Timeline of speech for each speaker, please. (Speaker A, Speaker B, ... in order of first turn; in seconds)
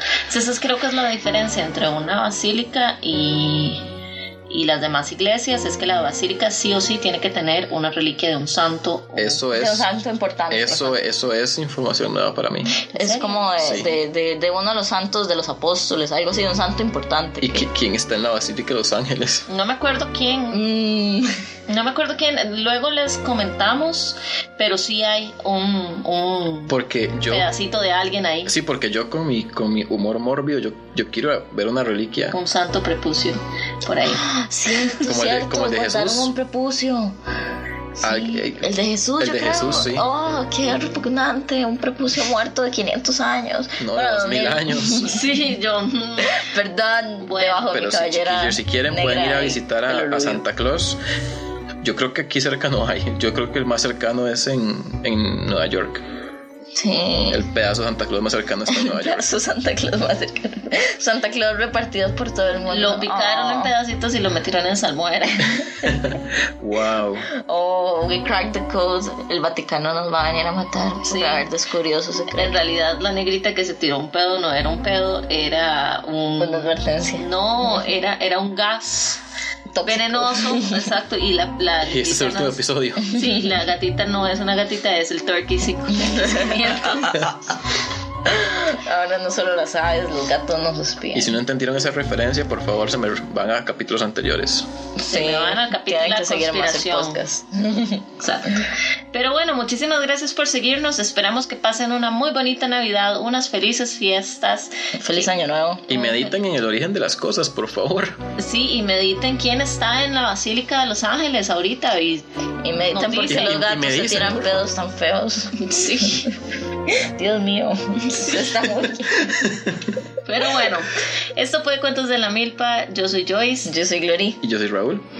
Speaker A: 0.3-3.9, 4.5-9.4, 12.9-13.8, 19.5-20.6, 21.7-28.6, 32.3-34.3, 45.0-46.5, 47.2-47.7, 62.7-65.9, 71.1-71.5, 72.3-79.2, 79.8-87.3, 95.1-97.2, 98.2-105.3, 105.9-106.3, 108.4-112.2, 112.9-113.7, 115.5-116.3, 118.2-118.5, 120.2-123.7
Speaker B: 9.2-9.9, 10.5-12.8, 13.6-13.9, 17.4-19.5, 26.7-27.5, 28.5-32.4, 35.0-36.3, 38.0-40.1, 43.8-45.2, 47.7-51.0, 51.8-56.0, 57.3-59.3, 65.9-67.3, 81.8-83.3, 91.1-94.7, 105.9-108.2, 113.2-114.6, 119.3-119.8, 124.4-125.0
Speaker C: 9.5-11.0, 12.9-17.7, 20.5-21.3, 34.1-37.1, 38.0-45.3, 46.2-50.4, 56.8-57.5, 58.7-63.7, 67.3-72.6, 76.4-77.8, 79.7-80.9, 86.2-87.4, 88.2-91.4, 95.0-98.1, 105.0-105.9, 112.6-116.3, 116.9-119.5, 123.7-124.4